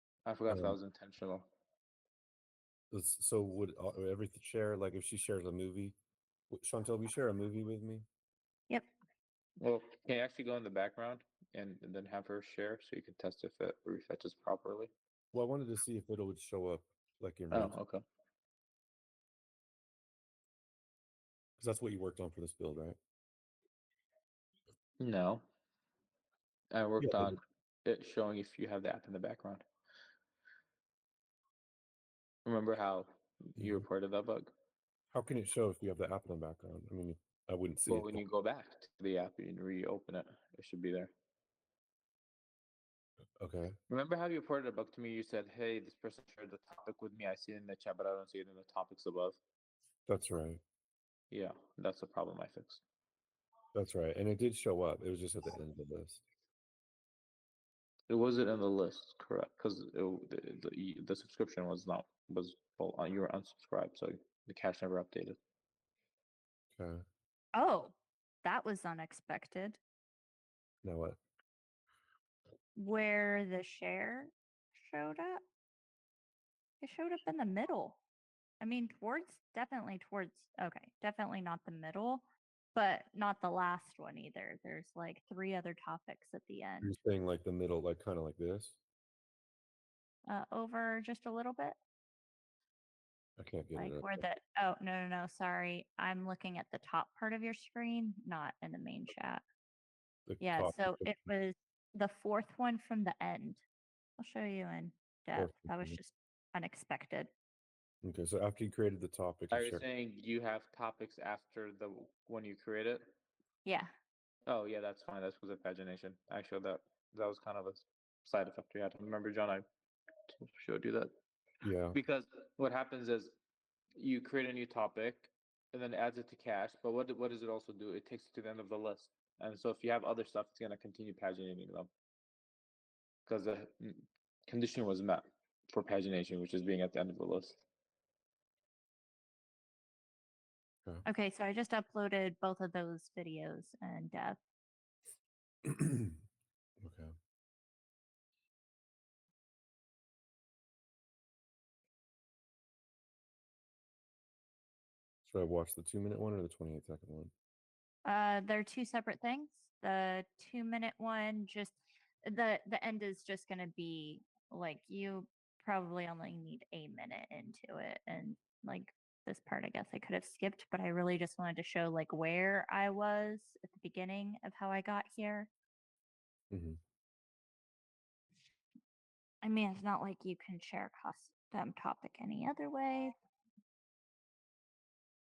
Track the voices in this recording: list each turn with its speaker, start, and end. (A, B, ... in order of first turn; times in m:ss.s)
0:00.2-0:01.5 A
0:00.5-0:00.8 B
0:02.9-0:06.0 B
0:06.5-0:08.0 B
0:09.6-0:14.9 A
0:15.3-0:17.8 B
0:17.5-0:18.0 A
0:21.6-0:23.0 B
0:25.0-0:25.4 A
0:26.7-0:29.6 A
0:27.0-0:27.4 B
0:32.4-0:34.5 A
0:33.6-0:33.8 B
0:35.1-0:38.2 B
0:37.9-0:41.1 A
0:43.4-0:43.7 B
0:43.9-0:49.4 A
0:50.1-0:50.6 B
0:51.3-0:52.8 A
0:53.7-0:56.2 B
0:58.1-1:05.4 A
1:06.7-1:07.0 B
1:07.5-1:09.8 C
1:10.8-1:11.2 B
1:12.8-1:15.4 C
1:16.8-1:18.0 C
1:18.6-1:22.2 C
1:22.7-1:26.9 C
1:26.8-1:28.8 B
1:30.3-1:31.8 C
1:33.4-1:34.1 B
1:33.7-1:39.4 C
1:40.3-1:41.1 B
1:40.4-1:43.6 C
1:44.2-1:47.3 C
1:45.4-1:46.0 B
1:48.0-1:49.8 B
1:49.5-1:53.0 A
1:53.6-1:53.9 C
1:54.5-1:59.6 A
2:00.3-2:01.1 A
2:01.6-2:02.0 B
2:01.9-2:03.4 A
2:04.0-2:11.9 A
2:13.2-2:17.6 A
2:21.0-2:24.4 C
2:25.6-2:26.2 B
2:26.8-2:27.1 B
2:35.2-2:37.3 B
2:38.0-2:55.5 C
2:56.5-2:56.8 B
2:59.4-3:03.1 C